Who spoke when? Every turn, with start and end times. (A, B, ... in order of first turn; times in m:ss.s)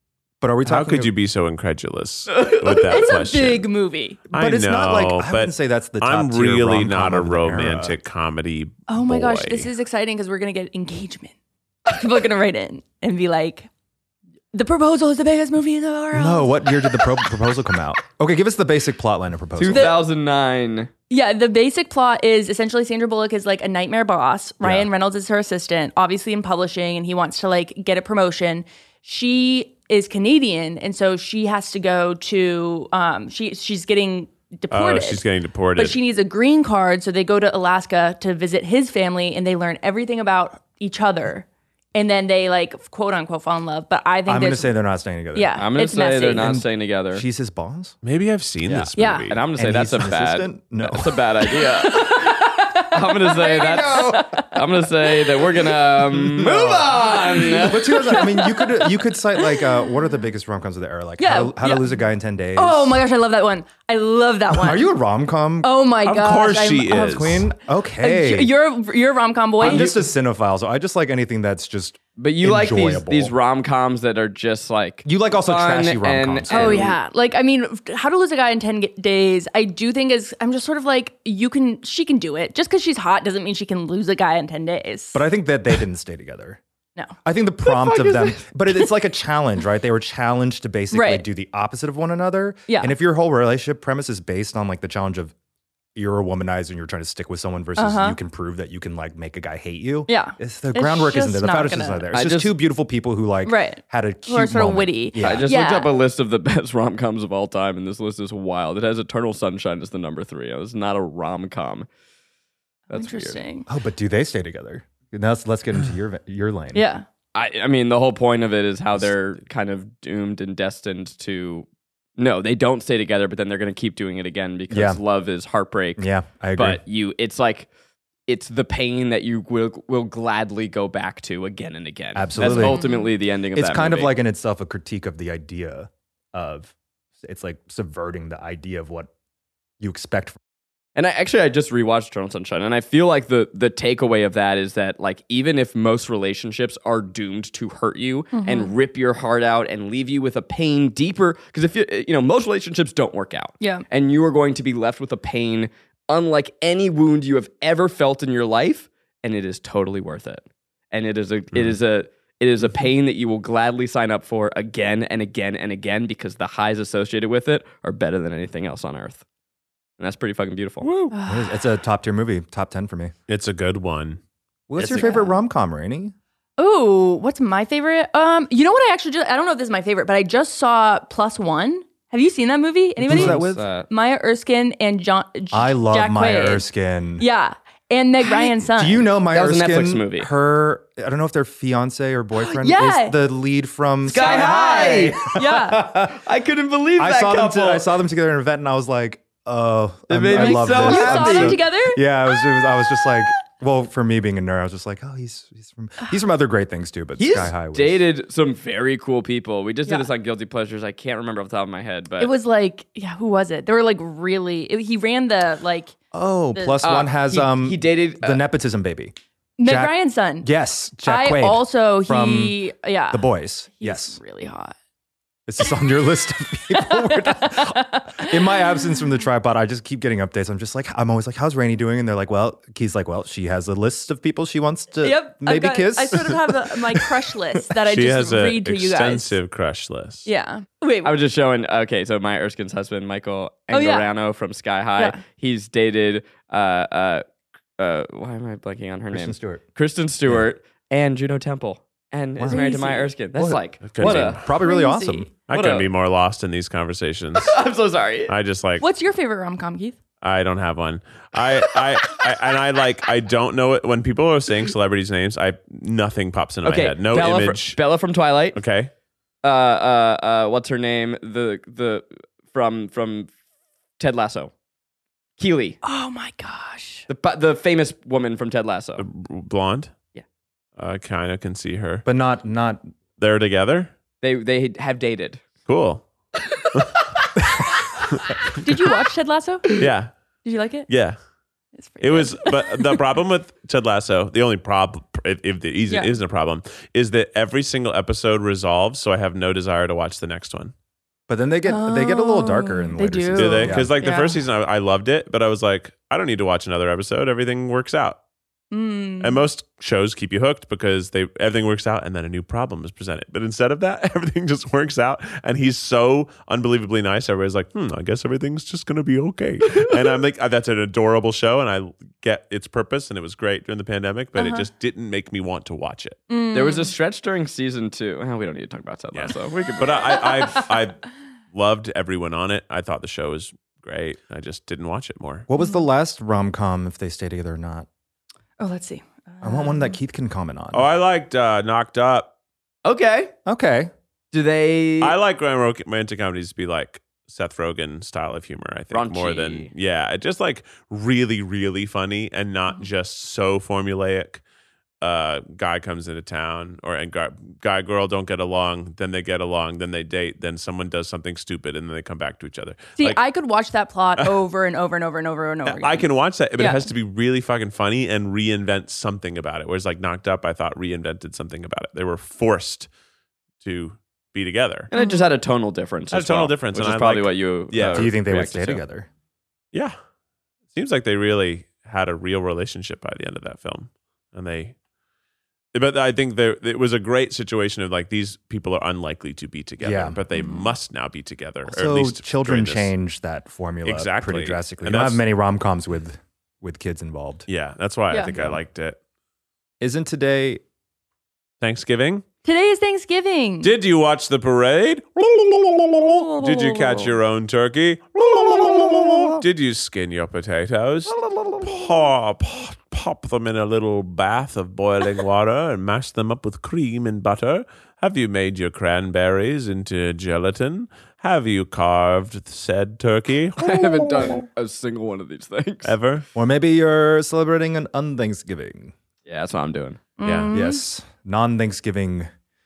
0:00.4-0:01.1 A
0:00.6-0:03.7 B
0:02.3-0:03.0 C
0:02.9-0:04.2 D
0:04.3-0:08.0 A
0:04.3-0:09.7 B
0:08.9-0:11.3 D
0:11.9-0:13.7 D
0:14.5-0:17.0 D
0:16.1-0:20.0 A
0:19.6-0:20.9 C
0:19.7-0:19.9 D
0:21.1-0:35.2 D
0:24.6-0:24.9 A
0:34.7-0:36.0 B
0:35.8-0:44.7 D
0:44.2-0:45.6 A
0:45.3-0:46.5 D
0:45.6-0:47.2 C
0:46.4-0:48.0 A
0:48.0-0:49.4 B
0:48.7-0:58.0 C
0:49.0-0:49.3 D
0:49.5-0:51.3 A
0:51.8-0:54.6 D
0:53.7-0:54.2 A
0:56.0-1:03.1 A
0:57.9-0:59.9 D
1:01.2-1:01.9 D
1:02.6-1:04.9 D
1:04.5-1:05.7 A
1:05.6-1:07.2 D
1:06.0-1:07.4 B
1:06.8-1:08.5 A
1:08.0-1:09.9 D
1:09.6-1:13.3 A
1:09.6-1:10.0 C
1:12.2-1:17.0 C
1:15.0-1:16.9 A
1:16.5-1:25.2 D
1:25.1-1:26.6 A
1:27.2-1:35.3 A
1:27.8-1:28.4 C
1:30.9-1:31.2 D
1:32.7-1:32.9 D
1:35.9-1:45.5 A
1:37.8-1:38.2 D
1:40.1-1:42.0 D
1:42.1-1:42.5 C
1:43.4-1:45.9 D
1:45.2-1:51.9 C
1:52.9-1:53.4 C
1:52.9-1:53.7 D
1:53.7-1:56.8 A
1:56.7-1:57.0 D
1:57.3-2:01.6 C
2:02.2-2:07.7 C
2:04.7-2:05.0 A
2:06.0-2:06.8 A
2:08.3-2:14.1 C
2:12.1-2:12.9 A
2:12.4-2:13.1 D
2:13.5-2:19.1 A
2:19.8-2:20.4 A
2:20.9-2:49.2 C
2:28.3-2:28.7 D
2:33.6-2:33.8 D
2:50.0-2:50.9 C
2:50.8-2:51.1 B
2:51.1-2:51.5 D
2:51.3-2:53.1 A
2:53.3-2:54.2 B
2:54.7-2:56.1 A
2:54.8-2:55.2 C
2:54.8-2:55.4 D
2:56.6-3:06.6 D
3:03.0-3:03.7 A
3:03.0-3:03.9 C
3:05.5-3:07.2 A
3:07.2-3:09.0 D
3:08.2-3:16.2 A
3:09.3-3:10.3 C
3:12.4-3:13.2 D
3:14.0-3:15.9 D
3:14.0-3:15.3 C
3:16.1-3:17.9 C
3:17.0-3:28.0 A
3:20.1-3:21.6 C
3:20.3-3:23.1 D
3:27.2-3:32.3 C
3:32.2-3:35.9 D
3:36.1-3:42.6 A
3:36.5-3:36.8 D
3:36.8-3:38.4 C
3:39.6-3:40.5 D
3:41.0-3:44.7 D
3:43.1-3:44.2 A
3:45.5-3:57.4 A
3:46.7-3:48.8 D
3:55.0-3:59.4 D
3:57.8-4:00.3 B
4:00.2-4:01.2 D
4:01.0-4:07.2 C
4:03.7-4:04.1 D
4:07.8-4:14.4 C
4:09.1-4:09.6 A
4:12.4-4:12.6 A
4:12.4-4:13.1 D
4:13.3-4:15.3 A
4:13.8-4:14.4 B
4:14.6-4:15.3 D
4:15.5-4:17.6 B
4:15.5-4:15.9 C
4:17.4-4:18.3 C
4:18.3-4:18.8 B
4:18.8-4:20.0 D
4:20.2-4:27.8 B
4:26.6-4:28.6 C
4:28.5-4:28.9 B
4:29.4-4:33.3 C
4:34.0-4:34.5 C
4:35.4-4:35.8 C
4:35.8-4:37.1 D
4:37.1-4:39.0 C
4:39.0-4:39.9 B
4:40.8-4:42.0 B
4:42.0-4:42.9 A
4:43.2-4:43.9 B
4:44.2-4:45.4 C
4:45.6-4:46.0 B
4:48.6-4:49.7 D
4:49.8-4:50.1 B
4:50.4-4:50.9 D
4:50.9-4:51.2 B
4:51.8-4:52.8 D
4:52.0-5:00.7 B
4:55.9-4:56.1 D
5:01.3-5:03.9 A
5:01.6-5:04.4 D
5:03.3-5:08.2 B
5:08.7-5:09.4 D
5:09.2-5:26.2 B
5:24.4-5:24.6 D
5:26.3-5:26.9 D
5:26.5-5:30.6 C
5:29.1-5:31.0 B
5:31.5-5:35.5 B
5:35.5-5:37.9 A
5:35.6-5:35.8 D
5:38.6-5:39.9 D
5:39.4-5:40.9 A
5:40.7-5:42.3 B
5:42.8-5:43.3 C
5:43.4-5:43.9 A
5:44.3-5:45.1 C
5:45.0-5:54.4 B
5:48.9-5:49.7 C
5:55.0-6:03.2 B
6:03.0-6:06.8 D
6:05.6-6:12.9 B
6:13.6-6:14.9 B
6:14.9-6:18.8 C
6:14.9-6:15.3 D
6:16.1-6:18.1 B
6:17.9-6:19.1 A
6:20.7-6:24.7 B
6:25.7-6:32.9 B
6:29.8-6:30.2 A
6:30.3-6:30.7 D
6:31.7-6:37.5 A
6:33.8-6:35.2 B
6:37.5-6:39.0 B
6:38.3-6:38.6 A
6:39.8-6:40.6 A
6:41.6-6:42.2 B
6:42.4-6:43.7 D
6:43.6-7:04.3 B
6:46.0-6:47.1 D
6:48.3-6:49.4 A
6:51.1-6:51.7 A
7:03.6-7:06.0 C
7:05.8-7:06.2 B
7:06.3-7:08.9 A
7:09.2-7:10.0 C
7:10.2-7:10.8 D
7:10.2-7:10.5 B
7:10.5-7:12.3 A